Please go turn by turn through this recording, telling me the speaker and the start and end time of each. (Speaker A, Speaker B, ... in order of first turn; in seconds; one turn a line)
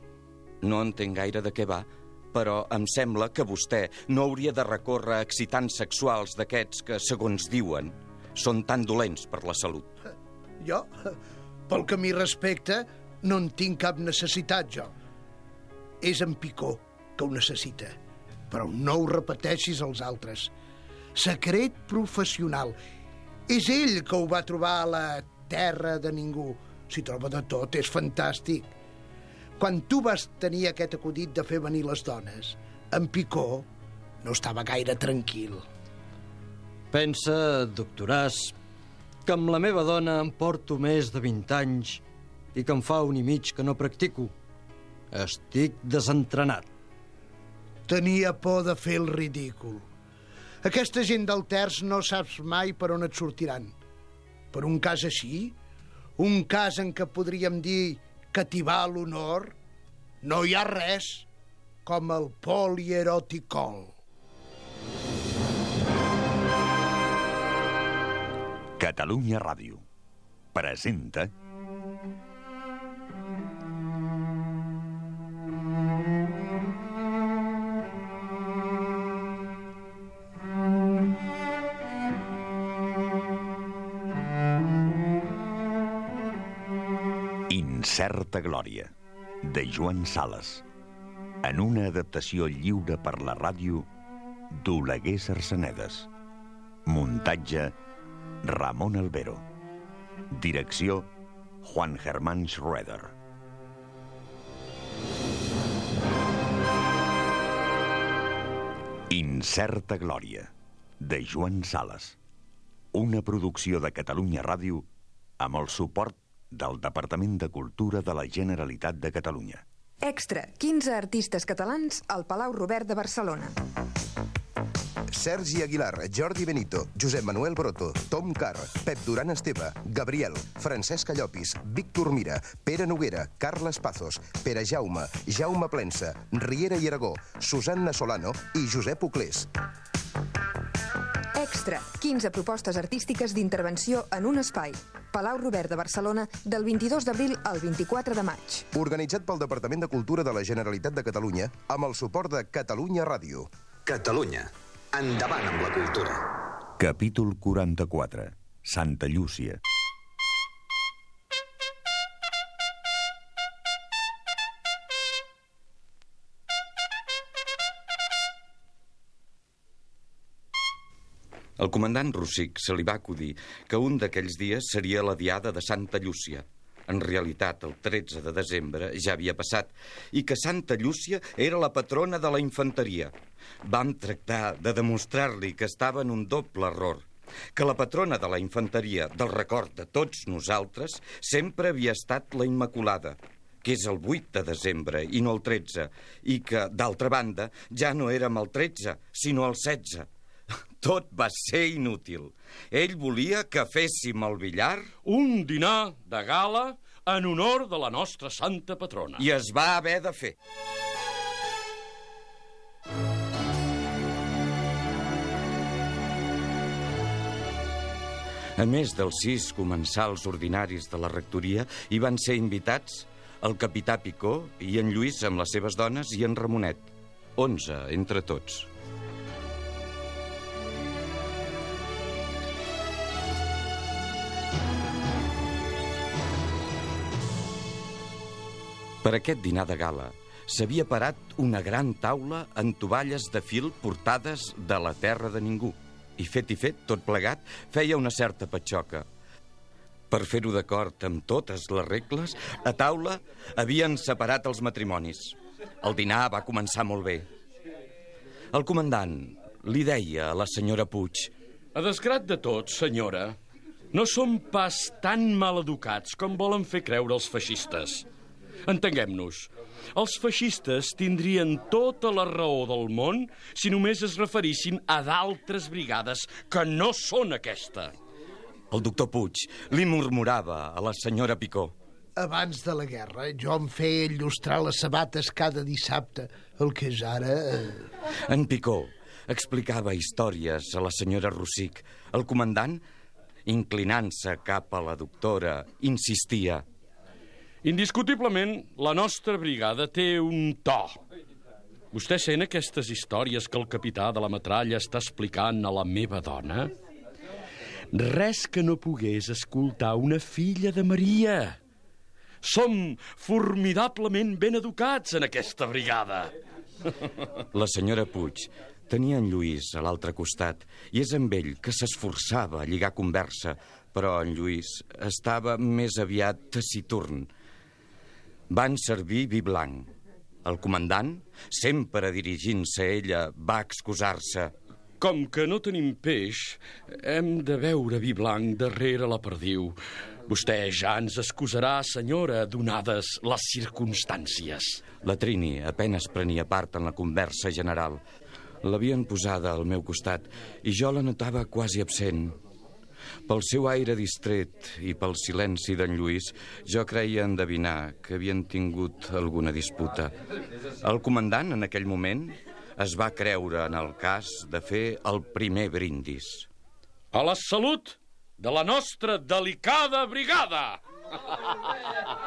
Speaker A: 0.6-9.9
Speaker B: 10.6-10.9
Speaker B: 11.7-14.9
Speaker B: 16.0-17.9
Speaker B: 18.5-20.5
Speaker B: 21.1-22.8
Speaker B: 23.5-28.7
Speaker B: 29.6-33.6
Speaker B: 34.2-35.6
Speaker C: 36.9-38.5
Speaker C: 39.2-42.0
Speaker C: 42.5-44.3
Speaker C: 45.1-46.7
Speaker B: 47.9-49.8
Speaker B: 50.6-53.7
Speaker B: 54.5-55.5
Speaker B: 56.2-59.5
Speaker B: 60.2-61.2
Speaker B: 61.9-64.0
Speaker D: 68.8-69.8
Speaker D: 70.5-71.3
Speaker D: 87.5-88.9
Speaker D: 89.5-90.6
Speaker D: 91.4-93.9
Speaker D: 94.5-96.1
Speaker D: 96.9-97.7
Speaker D: 98.4-99.5
Speaker D: 100.3-101.1
Speaker D: 101.6-103.1
Speaker D: 109.1-110.5
Speaker D: 111.0-112.1
Speaker D: 112.9-114.9
Speaker D: 115.4-119.6
Speaker E: 120.0-123.5
Speaker F: 125.1-139.5
Speaker E: 141.3-148.7
Speaker F: 148.7-153.5
Speaker G: 153.9-156.2
Speaker D: 156.8-159.6
Speaker A: 171.6-183.1
Speaker A: 183.6-200.1
Speaker A: 200.8-204.9
Speaker H: 205.0-209.2
Speaker A: 209.2-210.3
Speaker A: 218.6-228.7
Speaker A: 239.0-249.1
Speaker A: 250.1-257.2
Speaker A: 258.5-261.3
Speaker H: 261.7-263.4
Speaker H: 263.9-268.0
Speaker H: 268.7-277.9
Speaker A: 278.7-281.7
Speaker B: 282.1-287.9
Speaker A: 288.3-292.8
Speaker A: 293.4-296.6
Speaker H: 297.6-301.0
Speaker H: 301.9-306.7
Speaker H: 307.9-311.6
Speaker H: 312.4-316.3
Speaker A: 317.5-327.3
Speaker A: 328.5-329.9
Speaker A: 330.4-334.5
Speaker H: 335.0-339.8
Speaker H: 340.3-344.8
Speaker A: 345.0-348.0
Speaker A: 348.6-352.3
Speaker A: 353.3-360.1
Speaker A: 360.8-366.5
Speaker H: 367.1-370.8